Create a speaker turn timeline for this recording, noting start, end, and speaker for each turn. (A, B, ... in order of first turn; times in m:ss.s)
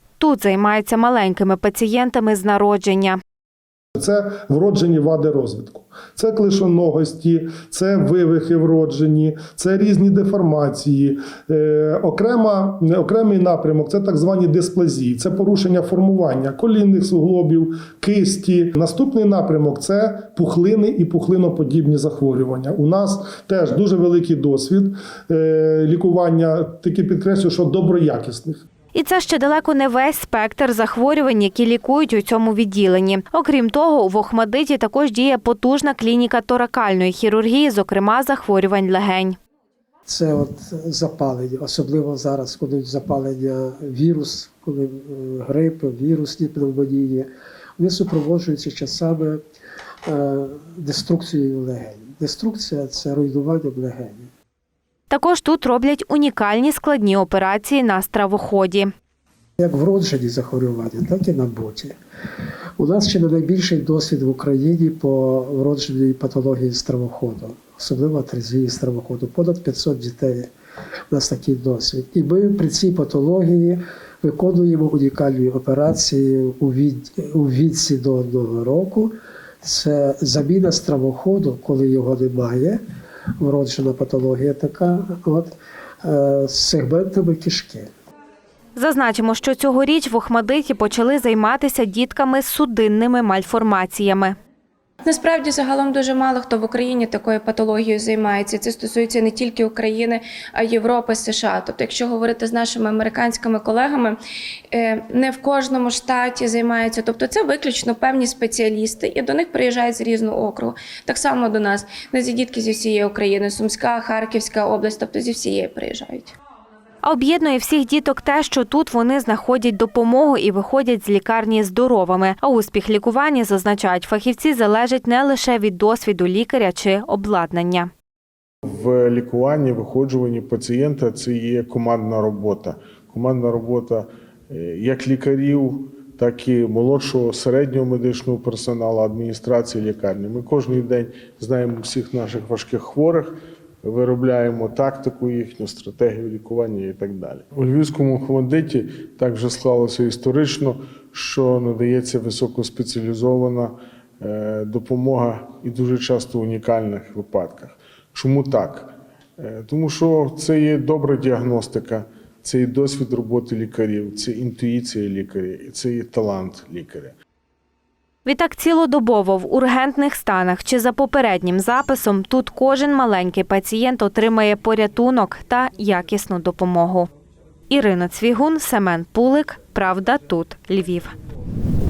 0:00.2-0:03.2 A
0:04.0-0:28.6 B
0:28.9-0:39.4 A
0:40.1-0:47.3 C
0:47.8-0:49.4 C
0:50.1-0:54.3 C
0:55.1-0:58.9 A
0:59.6-1:01.9 C
1:02.8-1:10.5 C
1:11.1-1:19.1 C
1:19.6-1:22.8 C
1:23.4-1:27.9 C
1:28.8-1:34.3 A
1:35.0-1:44.2 D
1:44.7-1:56.3 D
1:57.0-2:07.9 A
2:08.6-2:47.2 E
2:48.2-2:57.1 A
2:57.7-3:01.1 A